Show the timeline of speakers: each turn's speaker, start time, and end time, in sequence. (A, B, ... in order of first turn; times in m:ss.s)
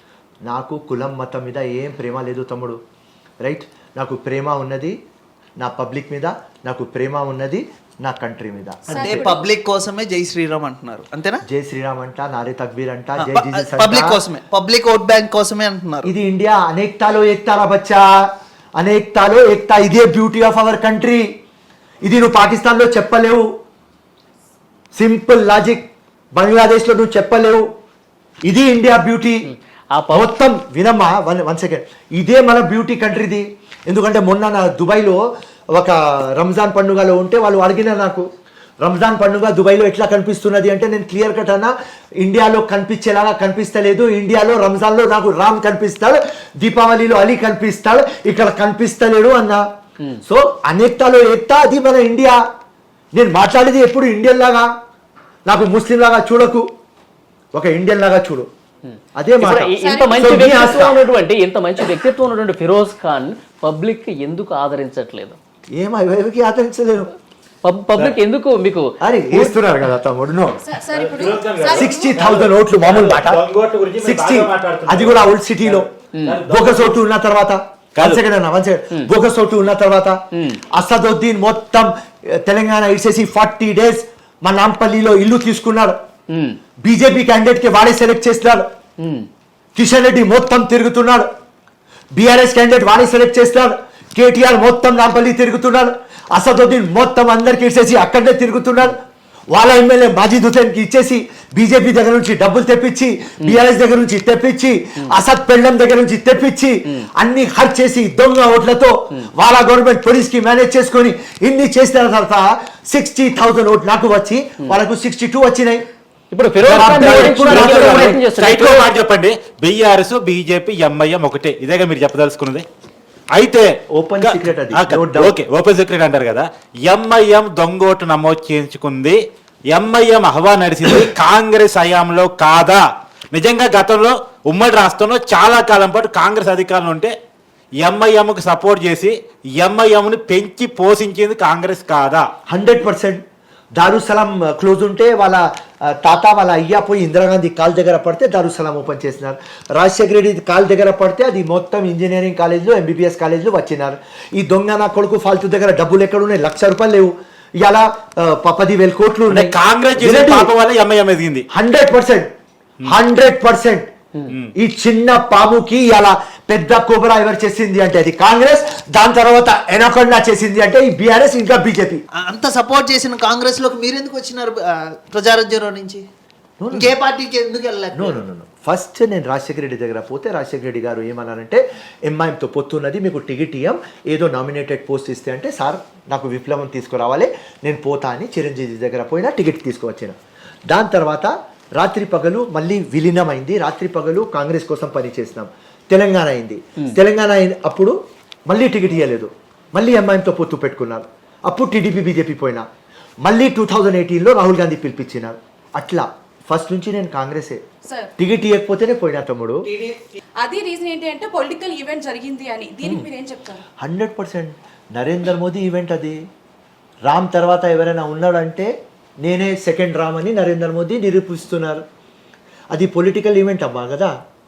0:00.4-0:02.8 A
0:03.4-0:05.0 A
0:05.6-0:09.2 A
0:08.9-0:09.5 B
0:08.9-0:11.4 C
0:11.5-0:14.2 A
0:13.2-0:16.1 C
0:16.0-0:18.1 A
0:18.8-0:21.3 A
0:22.0-0:23.5 A
0:25.0-0:27.6 A
0:28.5-0:29.5 A
0:29.5-0:30.3 D
0:30.1-0:35.2 A
0:35.7-0:38.2 A
0:38.8-0:49.6 A
0:50.2-0:52.4 A
0:53.1-0:54.7 A
0:55.5-0:56.7 A
0:57.6-0:58.5 A
0:59.2-1:01.0 A
0:59.4-1:05.4 D
0:59.8-1:00.2 B
1:05.7-1:07.1 A
1:07.6-1:09.6 D
1:09.0-1:10.6 A
1:10.6-1:12.2 B
1:10.9-1:17.0 E
1:11.7-1:13.4 A
1:14.0-1:15.9 A
1:16.5-1:26.0 A
1:20.3-1:20.6 D
1:26.3-1:26.6 D
1:26.8-1:28.7 A
1:29.0-1:29.3 D
1:29.8-1:31.3 A
1:32.1-1:55.8 A
1:56.3-1:58.9 D
1:56.6-1:58.2 A
1:56.8-2:02.6 E
2:03.3-2:03.6 E
2:03.9-2:05.4 A
2:04.2-2:09.2 E
2:09.7-2:12.8 E
2:13.3-2:17.1 E
2:17.8-2:22.3 E
2:22.5-2:23.2 A
2:23.8-2:40.5 A
2:39.3-2:41.4 E
2:41.5-2:42.3 A
2:42.9-2:43.9 A
2:44.6-2:52.0 A
2:52.2-2:56.0 C
2:56.6-2:56.9 A
2:56.7-2:58.2 C
2:57.9-3:10.2 A
3:10.7-3:17.9 A
3:18.5-3:22.7 A
3:23.2-3:27.6 A
3:28.2-3:29.7 A
3:29.7-3:33.6 B
3:33.8-3:36.2 A
3:37.1-3:41.8 A
3:42.7-3:44.1 A